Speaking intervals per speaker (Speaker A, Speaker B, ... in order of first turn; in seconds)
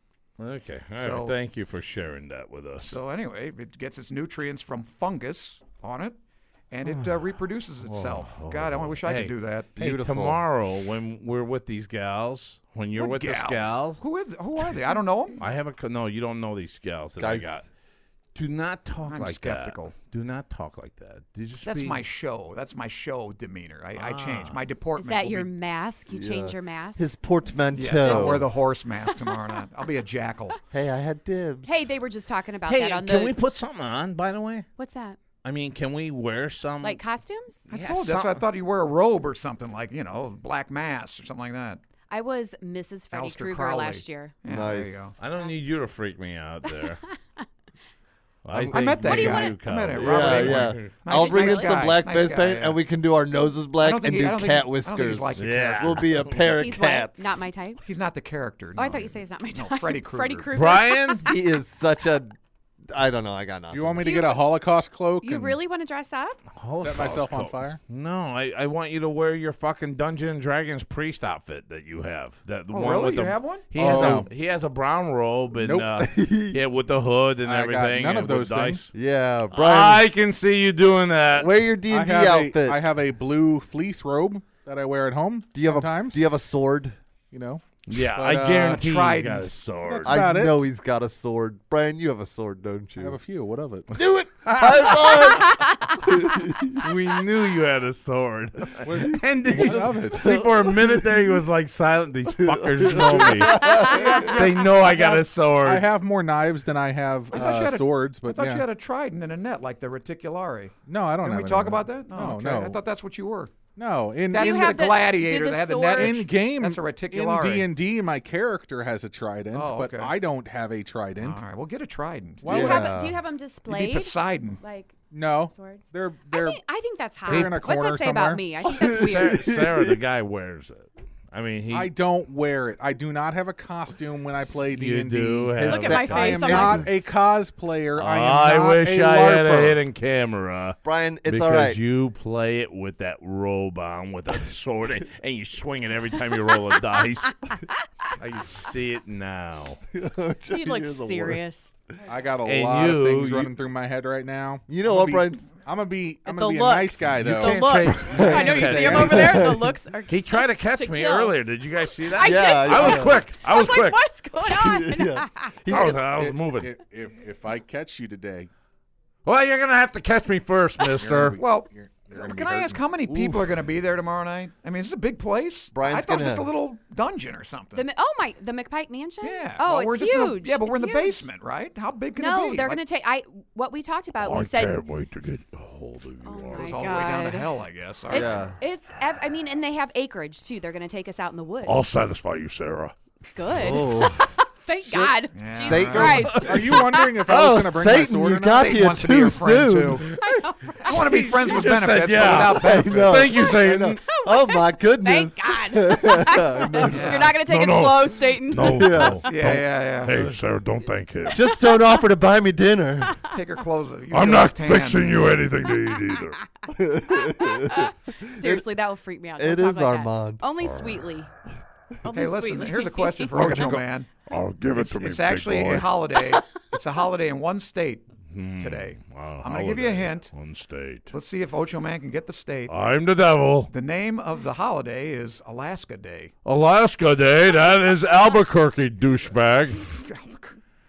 Speaker A: 0.4-3.0, 7.9-14.0, 15.4-17.7, 18.4-22.0, 24.0-24.6, 32.7-34.7, 35.4-37.0, 37.7-38.4, 45.2-47.0, 48.5-51.0, 55.4-56.5, 60.5-61.3, 66.6-78.9, 79.5-81.5, 87.9-90.2, 94.5-95.5, 96.8-105.9, 127.3-127.6, 128.8-131.9, 134.5-136.7, 138.0-147.4, 148.2-149.8, 152.4-153.5, 157.2-159.4, 160.1-164.0, 165.7-166.7, 169.2-171.4, 184.2-186.9, 191.7-192.9, 196.0-196.8, 200.8-204.0, 207.3-211.4, 214.1-216.4, 220.6-221.0, 223.4-226.0, 228.3-231.1, 232.7-233.7, 236.4-240.0
Speaker B: 1.0-1.4, 2.9-6.2, 6.7-9.7, 13.0-15.4, 19.1-19.9, 21.6-25.5, 27.7-30.6, 37.7-41.8, 43.1-45.2, 48.7-52.8, 53.8-56.1, 57.8-60.5, 72.7-73.7, 88.6-89.5, 107.3-113.5, 114.3-117.8, 119.5-120.2, 121.2-122.7, 123.7-124.6, 171.4-177.9, 179.2-182.8, 186.5-188.3, 195.3-196.3, 198.4-200.1, 200.8-203.3, 206.9-207.3, 209.3-210.2, 213.3-215.2, 222.1-224.1, 224.8-230.3, 231.1-232.7, 233.7-236.3, 240.0-240.6
Speaker C: 6.8-7.1, 9.8-10.4, 17.2-17.6, 26.1-28.5, 30.7-31.8, 44.5-45.2, 48.5-48.8, 49.9-57.4, 61.3-62.4, 62.9-64.1, 73.8-74.3, 76.0-76.6, 78.9-80.1, 81.3-82.8, 85.5-87.0, 90.0-93.2, 94.0-97.2, 99.0-101.2, 102.3-104.5, 122.5-123.2, 128.7-130.0, 135.6-137.0, 140.8-141.8, 149.9-151.4, 154.7-155.5, 158.1-159.7, 162.2-163.2, 164.4-166.0, 173.1-173.6, 175.7-176.5, 188.1-188.6, 193.5-194.3, 194.8-196.5, 197.2-200.1, 202.2-207.3, 208.6-209.6, 211.3-213.2, 216.7-218.7, 219.4-220.4, 223.4-223.8
Speaker D: 25.0-27.0, 28.0-28.4, 29.1-29.3, 31.6-33.4, 34.8-35.2, 36.8-37.6, 42.1-44.3, 46.7-47.5, 49.0-49.6, 51.1-51.8, 56.5-57.8, 58.8-61.4, 64.0-64.5, 65.2-66.4, 95.4-96.0, 103.5-104.3, 114.3-116.2, 122.5-129.5, 135.7-137.1, 150.5-151.8, 156.2-161.4, 162.0-165.6, 177.8-181.3, 182.2-184.8, 186.2-187.5, 188.1-191.8, 193.3-197.2, 200.2-201.2, 203.4-209.2, 217.1-221.3, 222.0-223.3
Speaker E: 63.7-65.6, 66.8-67.8, 73.8-74.3, 75.6-76.0, 77.4-78.9, 81.9-86.2, 87.3-88.8, 89.9-90.7, 93.0-93.9, 98.8-100.4, 104.2-104.8, 105.6-108.7, 110.9-112.8, 113.8-114.9, 116.0-121.4, 122.4-122.8, 125.1-126.6, 127.3-128.4, 131.7-139.8, 152.1-157.7, 158.7-159.0, 166.0-168.5, 171.0-172.8, 196.4-198.8